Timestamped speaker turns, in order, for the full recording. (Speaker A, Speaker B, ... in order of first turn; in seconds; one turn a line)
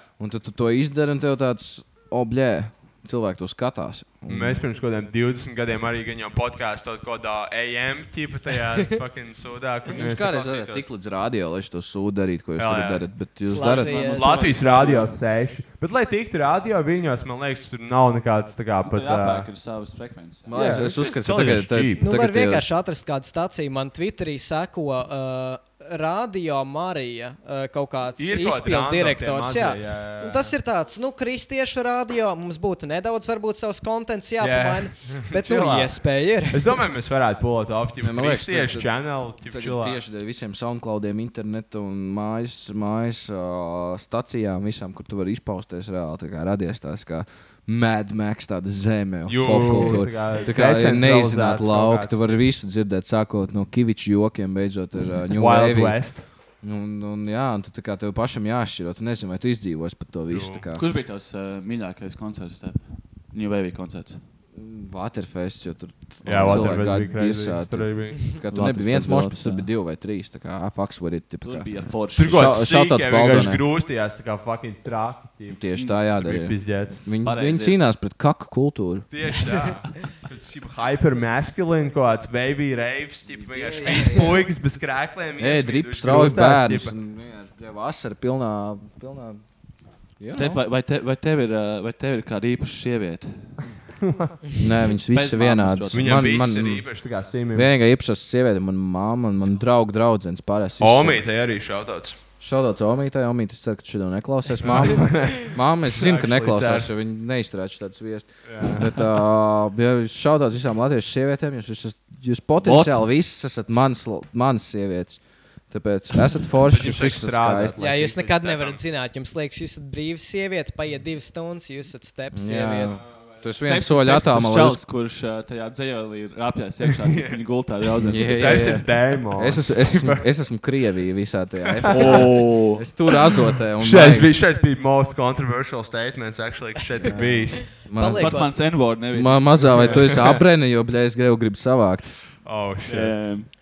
Speaker A: 0.2-4.7
Speaker B: 4.3-10.9
Speaker A: 9.9-14.2
Speaker B: 12.6-13.0
Speaker C: 13.5-14.6
Speaker B: 13.6-19.5
Speaker D: 14.1-15.1
Speaker D: 18.8-20.5
Speaker A: 20.5-22.6
Speaker B: 20.5-22.1
Speaker C: 22.0-36.8
Speaker B: 28.2-30.5
Speaker B: 34.4-36.0
Speaker B: 36.5-40.0
Speaker A: 38.0-56.0
Speaker B: 49.3-52.4
Speaker B: 55.4-56.2
Speaker A: 56.6-60.9
Speaker B: 60.3-60.6
Speaker D: 60.7-64.2
Speaker A: 64.6-73.6
Speaker D: 66.2-66.9
Speaker B: 66.3-68.3
Speaker D: 68.3-69.7
Speaker D: 71.5-72.5
Speaker B: 72.2-75.6
Speaker A: 75.5-79.1
Speaker B: 76.2-77.0
Speaker D: 77.2-77.8
Speaker B: 79.1-86.9
Speaker A: 83.5-84.5
Speaker D: 83.6-84.0
Speaker A: 85.4-89.4
Speaker A: 90.2-90.6
Speaker D: 90.3-93.5
Speaker B: 94.0-94.4
Speaker A: 94.5-96.8
Speaker D: 95.1-96.3
Speaker B: 95.9-97.7
Speaker A: 97.5-101.2
Speaker B: 100.8-102.2
Speaker A: 102.4-117.9
Speaker B: 104.6-106.9
Speaker B: 108.5-108.9
Speaker D: 112.6-113.0
Speaker B: 116.7-118.8
Speaker C: 117.8-123.0
Speaker A: 122.3-124.8
Speaker D: 123.6-128.8
Speaker B: 127.0-127.4
Speaker A: 128.0-134.3
Speaker B: 128.2-130.3
Speaker B: 131.8-132.3
Speaker D: 131.9-132.9
Speaker B: 133.8-137.7
Speaker A: 137.1-138.4
Speaker C: 137.8-138.6
Speaker D: 138.2-140.2
Speaker A: 139.1-142.2
Speaker B: 139.8-140.4
Speaker B: 142.4-143.2
Speaker D: 142.9-143.5